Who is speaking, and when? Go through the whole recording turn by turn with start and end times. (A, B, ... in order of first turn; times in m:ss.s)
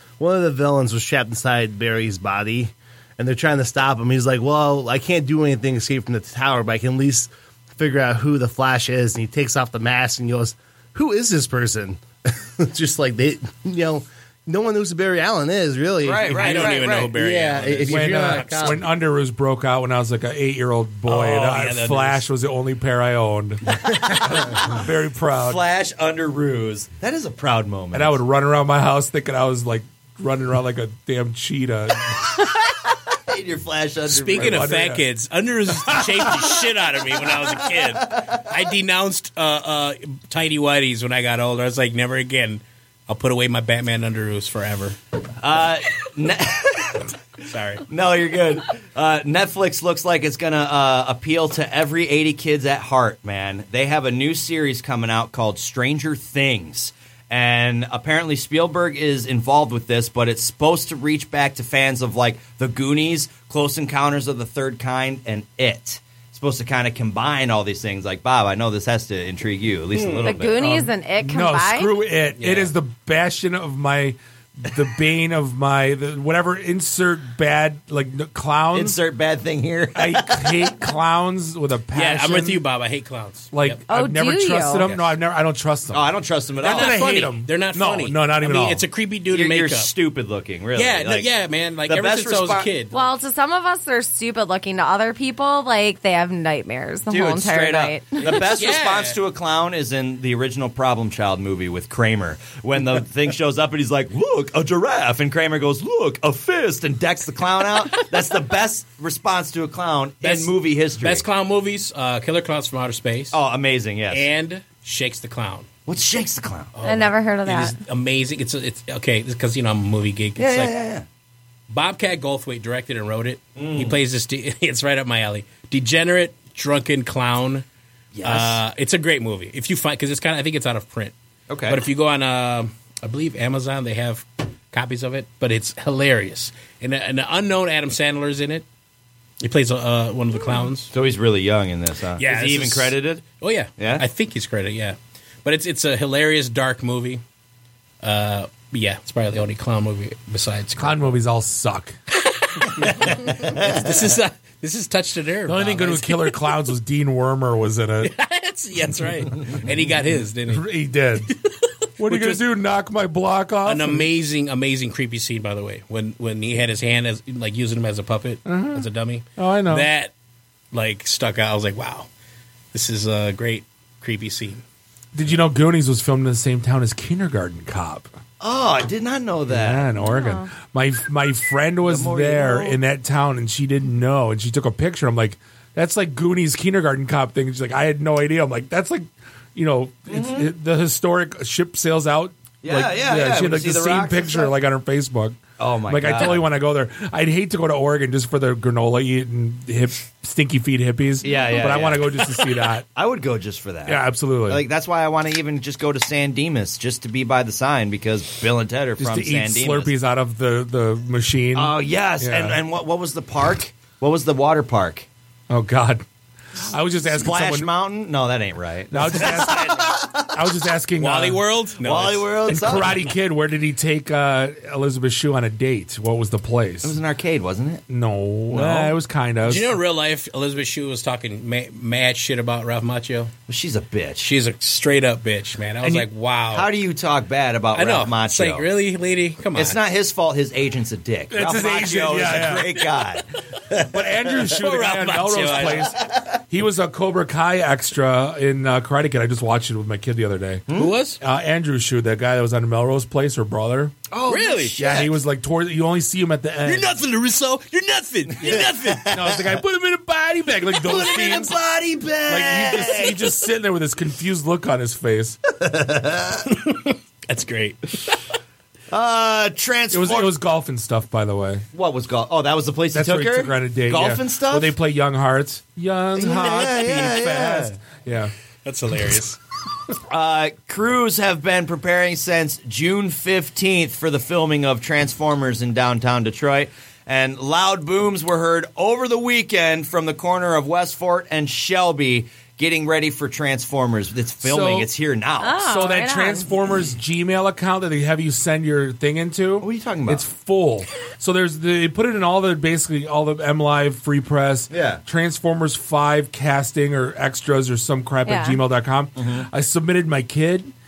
0:00.2-0:18.8 A
0:16.0-0:17.1 B
0:16.2-0:18.8 C
0:17.9-0:25.6 D
0:21.0-0:22.2 C
0:23.8-0:28.2 B
0:27.9-0:32.2 D
0:33.1-0:34.8 B
0:34.1-0:45.0 C
0:34.3-0:35.0 D
0:36.0-0:36.3 D
0:37.5-0:38.4 B
0:45.4-0:47.1 B
0:47.5-0:47.8 C
0:47.9-1:10.6 B
1:09.9-1:10.3 C
1:10.2-1:12.0 E
1:10.6-1:19.0 D
1:12.4-1:12.7 C
1:18.7-1:20.8 B
1:19.9-1:22.6 D
1:21.9-1:23.8 C
1:23.5-1:28.8 D
1:23.9-1:24.8 E
1:24.8-1:25.1 C
1:25.9-1:27.3 B
1:26.6-1:29.9 C
1:29.3-1:31.3 B
1:30.7-1:33.0 C
1:31.9-1:32.7 B
1:32.9-1:38.2 E
1:37.1-1:51.2 B
1:38.2-1:39.2 C
1:50.2-1:53.4 C
1:53.3-1:54.2 B
1:54.1-1:55.7 C
1:55.8-1:56.7 B
1:56.8-2:00.7 C
1:56.8-1:57.8 E
2:00.4-2:01.0 B
2:01.7-2:07.6 C
2:03.6-2:04.0 B
2:08.1-2:08.6 B
2:08.2-2:11.1 C
2:11.5-2:11.8 B
2:11.7-2:18.6 C
2:19.4-2:20.9 C
2:20.9-2:23.2 B
2:22.2-2:27.2 C
2:23.8-2:24.0 B
2:28.0-2:31.1 C
2:30.8-2:31.9 D
2:32.2-2:36.5 C
2:33.0-2:34.1 B
2:35.4-2:38.1 D
2:38.0-2:40.7 C
2:40.5-2:41.3 D
2:41.3-2:42.4 C
2:42.0-2:44.1 D
2:43.6-2:50.1 C
2:48.4-2:48.8 D
2:49.4-2:49.9 D
2:50.7-2:52.1 C
2:52.7-2:54.6 C
2:55.1-2:58.1 D
2:58.4-2:59.9 B
2:59.5-3:22.8 D
3:00.0-3:00.5 E
3:01.8-3:02.8 B
3:10.1-3:10.5 B
3:12.6-3:14.5 B
3:15.6-3:16.5 B
3:21.2-3:22.4 B
3:22.9-3:29.9 B
3:23.8-3:24.6 D
3:29.0-3:32.6 D
3:31.5-3:35.1 B
3:35.5-3:36.0 D
3:36.7-3:37.7 D
3:37.0-3:40.4 B
3:38.9-3:41.4 D
3:39.2-3:39.9 C
3:41.0-3:42.7 C
3:41.8-3:43.1 B
3:42.5-3:46.9 D
3:46.8-3:47.8 B
3:47.9-3:49.7 D
3:48.5-3:53.3 C
3:53.5-3:54.3 B
3:54.2-3:56.7 C
3:55.8-3:56.1 D
3:56.5-3:58.7 B
3:57.7-3:59.8 C
3:59.5-4:04.4 B
4:01.3-4:02.8 D
4:03.9-4:10.6 D
4:04.6-4:06.0 C
4:05.3-4:06.4 B
4:10.7-4:11.0 B
4:10.7-4:11.2 C
4:11.2-4:14.0 D
4:14.1-4:15.2 B
4:14.2-4:14.8 C
4:14.7-4:16.9 D
4:16.6-4:19.1 C
4:18.4-4:19.5 B
4:19.1-4:21.6 D
4:20.8-4:23.3 B
4:22.3-4:25.4 D
4:25.6-4:26.4 B
4:26.5-4:28.2 C
4:28.9-4:30.3 B
4:29.9-4:31.6 D
4:31.7-4:34.8 B
4:32.9-4:38.3 D
4:36.2-4:37.8 B
4:38.6-4:39.4 C
4:40.1-4:55.6 B
4:54.4-4:54.9 D
4:55.4-4:56.5 E
4:55.5-5:10.7 D
4:59.6-5:00.2 B
5:04.7-5:05.0 B
5:08.2-5:08.6 E
5:09.2-5:09.5 B